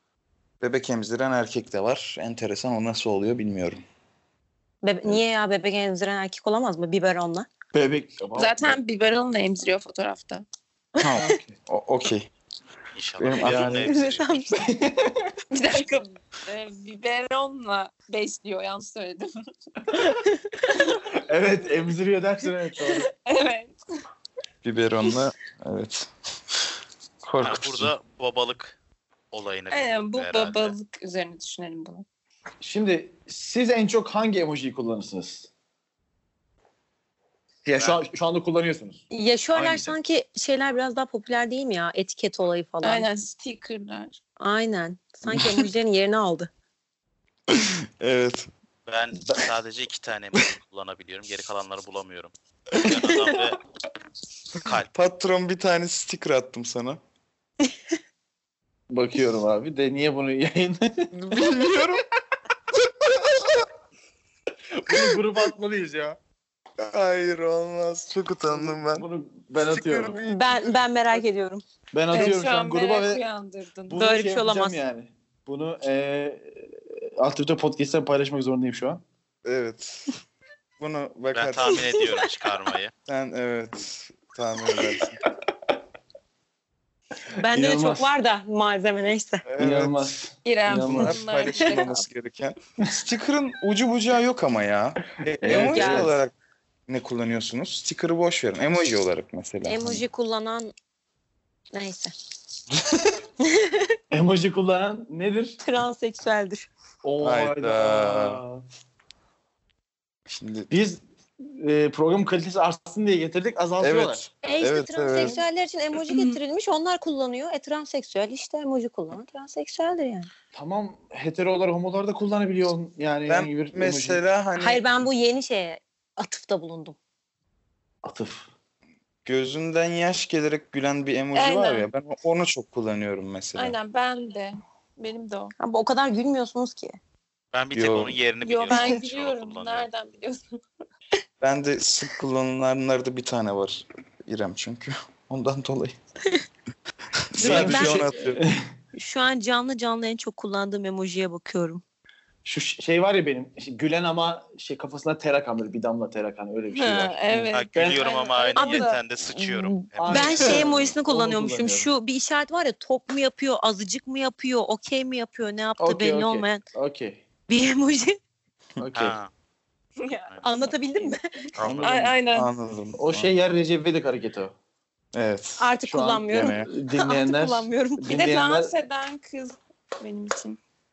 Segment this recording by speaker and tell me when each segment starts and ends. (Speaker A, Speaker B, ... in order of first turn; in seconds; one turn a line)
Speaker A: 0.6-3.8
Speaker B: 4.8-7.5
Speaker C: 7.7-8.8
Speaker D: 8.3-10.4
Speaker A: 11.0-12.2
Speaker C: 11.2-11.6
Speaker E: 12.9-14.5
Speaker A: 13.2-13.9
Speaker B: 13.4-14.7
Speaker C: 14.6-15.2
Speaker D: 15.5-19.3
Speaker C: 21.1-23.1
Speaker D: 23.0-23.8
Speaker A: 24.6-26.1
Speaker A: 27.2-27.9
Speaker E: 27.4-28.8
Speaker E: 29.3-30.8
Speaker D: 29.7-32.0
Speaker C: 32.6-35.5
Speaker C: 37.6-39.0
Speaker E: 37.8-38.0
Speaker B: 39.1-43.1
Speaker C: 39.5-40.0
Speaker D: 42.8-44.2
Speaker B: 44.4-46.5
Speaker A: 47.5-48.5
Speaker E: 48.9-53.6
Speaker E: 54.6-54.9
Speaker A: 54.9-57.0
Speaker C: 58.9-61.5
Speaker A: 61.1-62.0
Speaker A: 62.9-63.6
Speaker C: 64.7-66.2
Speaker A: 66.8-69.1
Speaker C: 68.5-70.2
Speaker A: 69.6-70.6
Speaker B: 70.2-71.6
Speaker C: 71.9-73.2
Speaker D: 72.1-74.1
Speaker C: 73.9-79.0
Speaker B: 73.9-74.8
Speaker A: 79.4-80.1
Speaker A: 80.8-82.1
Speaker E: 81.3-82.9
Speaker A: 83.0-85.2
Speaker B: 87.4-89.4
Speaker C: 87.5-88.1
Speaker A: 89.4-90.1
Speaker C: 89.6-91.2
Speaker D: 90.4-92.0
Speaker A: 90.7-96.3
Speaker C: 95.4-96.1
Speaker B: 95.5-96.1
Speaker A: 96.9-100.0
Speaker B: 99.6-100.7
Speaker B: 101.7-102.1
Speaker B: 103.4-103.8
Speaker C: 104.1-105.6
Speaker B: 105.6-106.7
Speaker C: 107.0-108.6
Speaker A: 107.2-108.4
Speaker A: 110.3-110.7
Speaker C: 110.7-114.2
Speaker A: 113.8-115.4
Speaker B: 114.4-120.3
Speaker C: 120.5-124.2
Speaker A: 123.2-125.1
Speaker B: 124.6-127.0
Speaker C: 128.0-128.5
Speaker A: 129.2-133.8
Speaker D: 131.3-131.9
Speaker D: 133.5-135.5
Speaker B: 135.6-137.0
Speaker E: 137.5-139.9
Speaker A: 137.7-138.2
Speaker D: 138.4-140.6
Speaker A: 141.4-145.9
Speaker A: 147.3-148.5
Speaker C: 147.4-148.6
Speaker B: 147.4-148.2
Speaker B: 148.9-151.8
Speaker C: 152.4-158.0
Speaker D: 156.7-159.0
Speaker E: 157.5-160.8
Speaker B: 158.5-166.6
Speaker C: 159.9-161.9
Speaker C: 165.8-167.2
Speaker B: 167.5-168.2
Speaker C: 168.8-169.2
Speaker E: 168.9-169.3
Speaker D: 170.0-170.3
Speaker E: 170.3-170.7
Speaker B: 170.4-171.5
Speaker E: 171.6-171.8
Speaker C: 171.6-172.2
Speaker A: 171.6-173.3
Speaker D: 171.8-172.5
Speaker C: 173.0-174.5
Speaker A: 175.1-175.7
Speaker B: 175.6-178.2
Speaker C: 175.8-178.7
Speaker A: 176.3-176.7
Speaker D: 178.1-180.6